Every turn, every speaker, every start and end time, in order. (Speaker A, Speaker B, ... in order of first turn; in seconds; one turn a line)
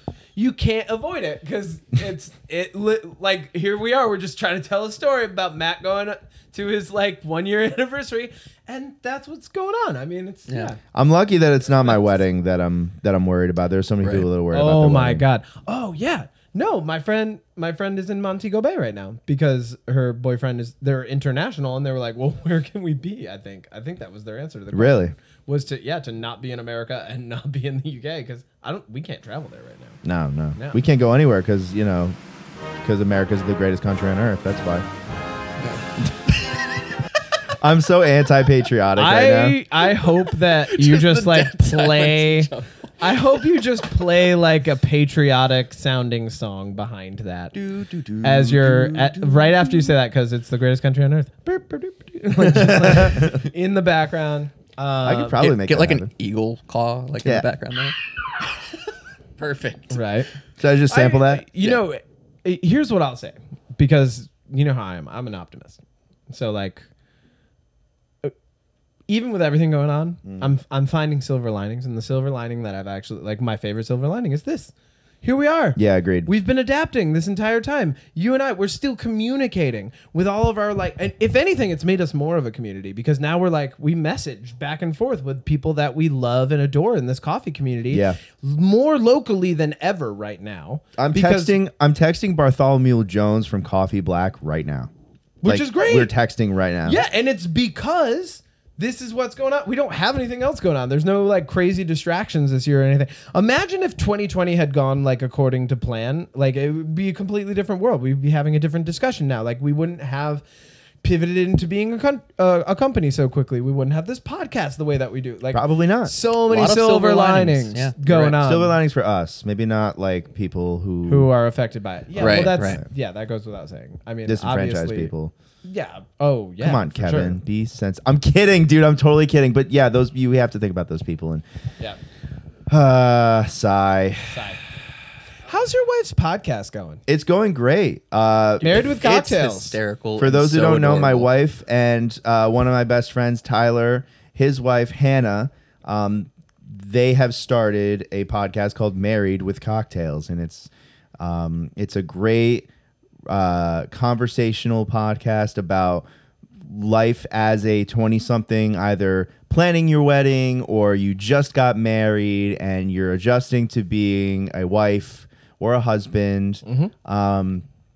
Speaker A: 0.4-10.8
Speaker B: 10.5-10.8
Speaker C: 10.9-15.2
Speaker A: 11.8-12.2
Speaker B: 14.0-14.3
Speaker A: 14.5-30.0
Speaker C: 24.7-25.1
Speaker C: 30.0-32.2
Speaker C: 32.8-34.9
Speaker C: 37.6-39.6
Speaker A: 39.0-47.5
Speaker B: 40.1-43.6
Speaker B: 47.5-49.9
Speaker A: 48.2-55.4
Speaker C: 52.4-53.4
Speaker C: 55.0-56.1
Speaker B: 55.4-58.0
Speaker B: 59.4-60.0
Speaker A: 59.9-60.3
Speaker C: 60.6-61.5
Speaker A: 60.9-66.9
Speaker A: 69.1-91.6
Speaker C: 70.2-70.5
Speaker C: 75.8-76.3
Speaker C: 87.9-88.2
Speaker C: 91.0-94.9
Speaker A: 95.4-96.1
Speaker C: 95.5-97.0
Speaker A: 96.8-110.4
Speaker A: 111.0-118.8
Speaker C: 115.5-116.1
Speaker B: 116.5-118.4
Speaker C: 118.4-121.3
Speaker A: 121.1-125.1
Speaker C: 122.2-122.9
Speaker B: 122.2-122.8
Speaker C: 124.3-125.3
Speaker A: 125.6-127.4
Speaker C: 126.6-131.4
Speaker C: 132.7-134.4
Speaker A: 134.3-134.6
Speaker A: 135.5-137.0
Speaker C: 137.1-138.8
Speaker A: 138.6-139.8
Speaker B: 138.7-141.3
Speaker C: 140.2-152.7
Speaker C: 153.3-156.1
Speaker C: 156.7-167.7
Speaker A: 166.7-166.9